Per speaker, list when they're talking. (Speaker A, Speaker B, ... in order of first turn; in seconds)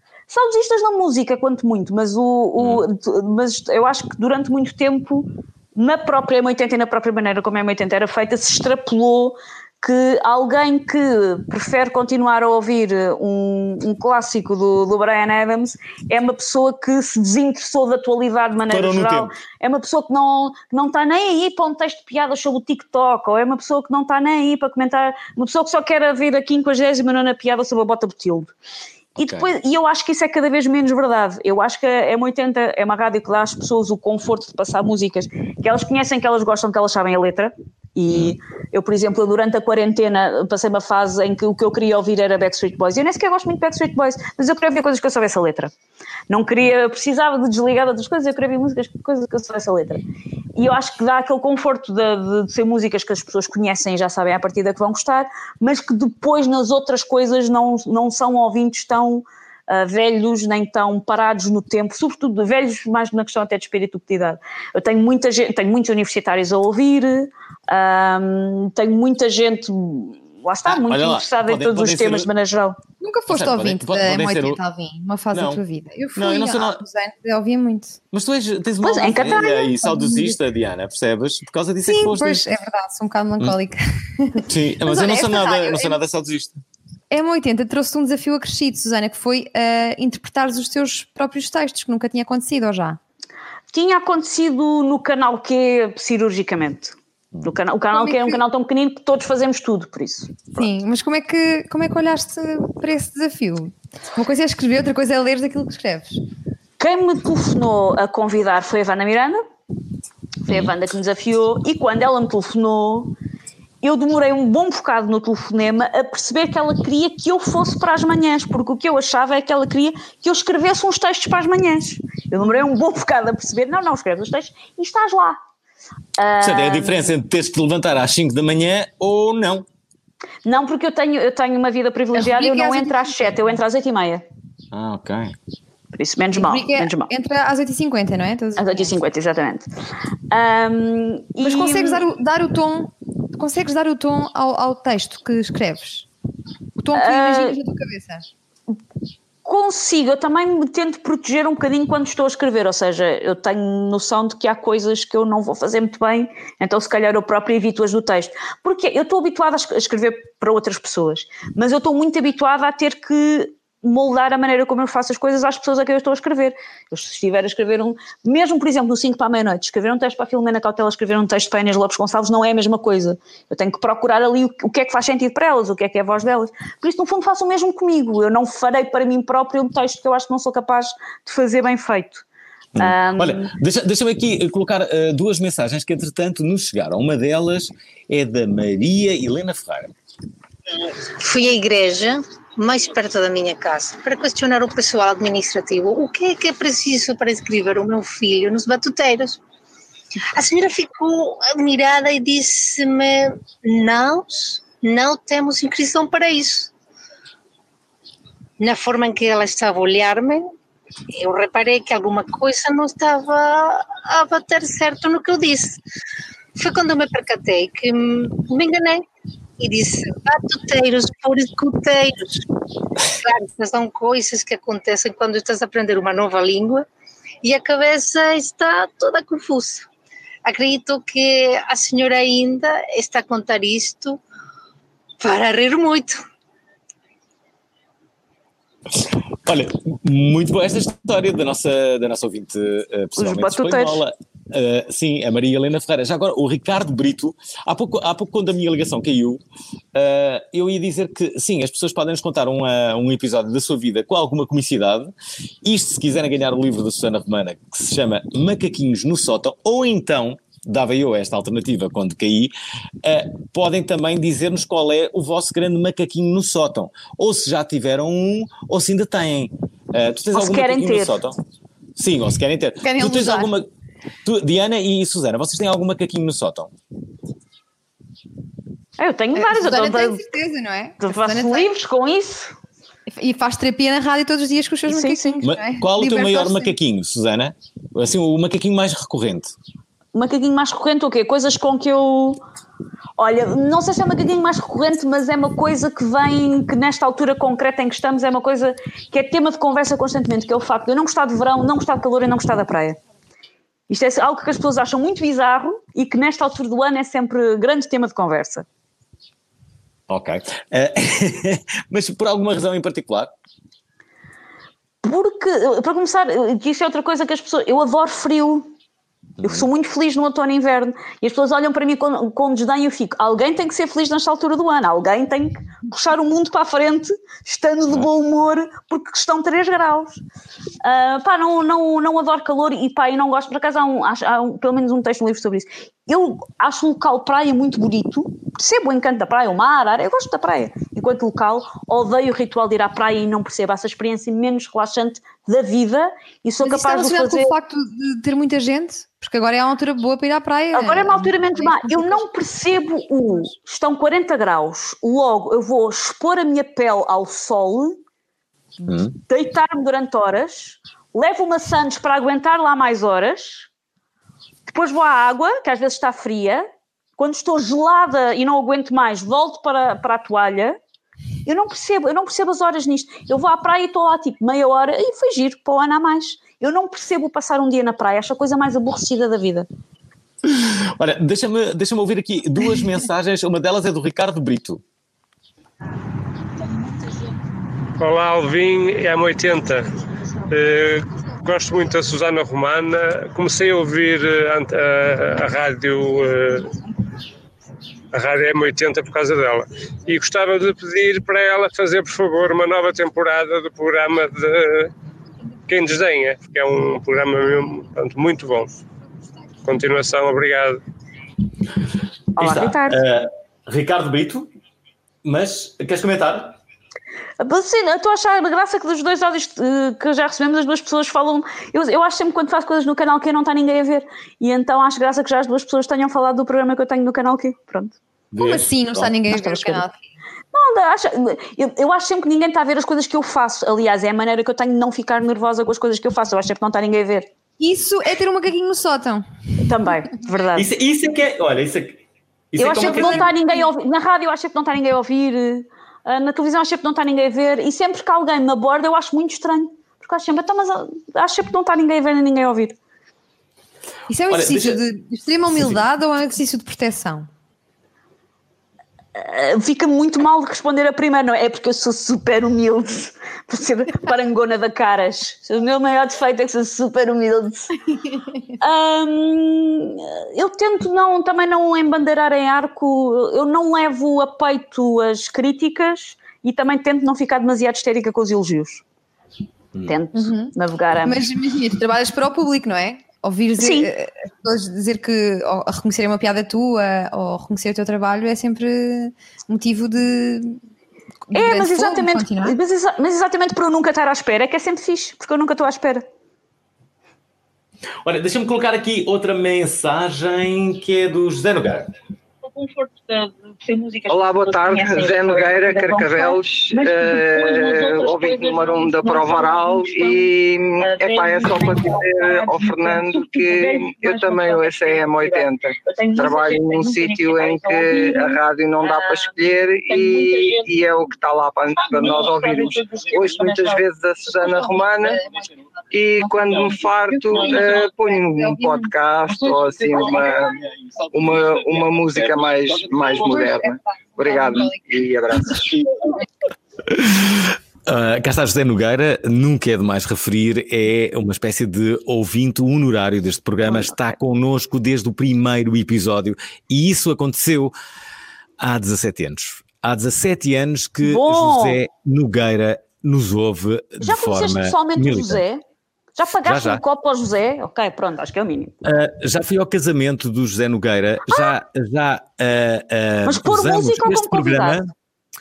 Speaker A: 0.3-28.5, 29.2-45.7, 46.3-50.0, 50.6-72.8, 78.8-79.7, 93.7-100.7, 106.8-109.4, 110.5-113.1, 113.8-125.4, 126.2-127.2, 130.4-134.2, 135.9-137.1, 138.6-139.7, 140.3-142.0, 146.9-147.6, 149.4-182.2, 182.8-183.5, 243.2-244.0, 270.3-271.2, 279.0-280.2, 281.0-282.5, 284.9-285.4, 290.1-292.4, 293.2-303.0, 303.9-308.7, 315.0-318.7, 319.4-330.2, 330.8-347.5, 350.7-358.0, 359.3-363.7, 364.7-366.7, 367.2-370.8, 371.5-379.7, 412.4-413.0, 417.4-428.0, 429.3-429.8, 430.5-437.3, 439.6-440.7, 442.6-452.8, 459.2-467.7, 468.6-478.8, 479.8-481.2, 483.6-483.9, 491.3-496.0, 502.5-510.2, 510.8-520.6, 521.9-523.8, 551.0-551.8, 554.0-555.6, 556.2-558.8, 563.3-564.8
Speaker B: 2.6-2.9, 18.7-19.3, 29.2-29.5, 38.1-38.4, 70.7-72.3, 73.3-74.6, 75.3-75.6, 76.2-76.8, 78.1-82.5, 84.5-86.6, 126.4-129.7, 134.7-135.3, 182.8-189.9, 239.0-249.4, 249.9-262.5, 263.0-271.4, 272.0-273.7, 274.2-276.7, 285.4-289.5, 310.1-313.3, 319.4-319.7, 358.9-359.1, 380.4-384.8, 412.4-414.5, 415.2-416.6, 428.3-429.1, 440.6-443.3, 454.3-454.8, 455.5-455.8, 498.0-501.9, 530.6-533.2, 536.9-547.7, 548.6-555.4, 556.2-556.8, 558.8-564.9
Speaker C: 73.0-78.0, 79.8-80.3, 81.9-86.0, 87.1-93.0, 97.9-98.4, 100.6-106.2, 132.2-133.6, 136.3-138.9, 141.4-146.1, 146.8-148.3, 272.8-273.5, 279.4-281.7, 283.1-286.8, 346.6-352.3, 428.4-430.0, 437.6-439.3, 442.8-443.6, 454.1-457.3, 480.2-480.5, 481.1-490.6, 491.3-492.6, 534.2-534.8
Speaker D: 191.2-199.4, 200.3-206.7, 208.6-210.5, 211.2-215.8, 216.6-219.1, 219.6-222.4, 223.1-226.9, 227.4-229.9, 230.4-234.2, 235.2-236.2
Speaker E: 388.0-389.9, 390.5-396.7, 398.1-404.9, 405.7-408.8, 409.6-410.8
Speaker F: 504.1-525.2, 525.9-530.6, 531.1-535.9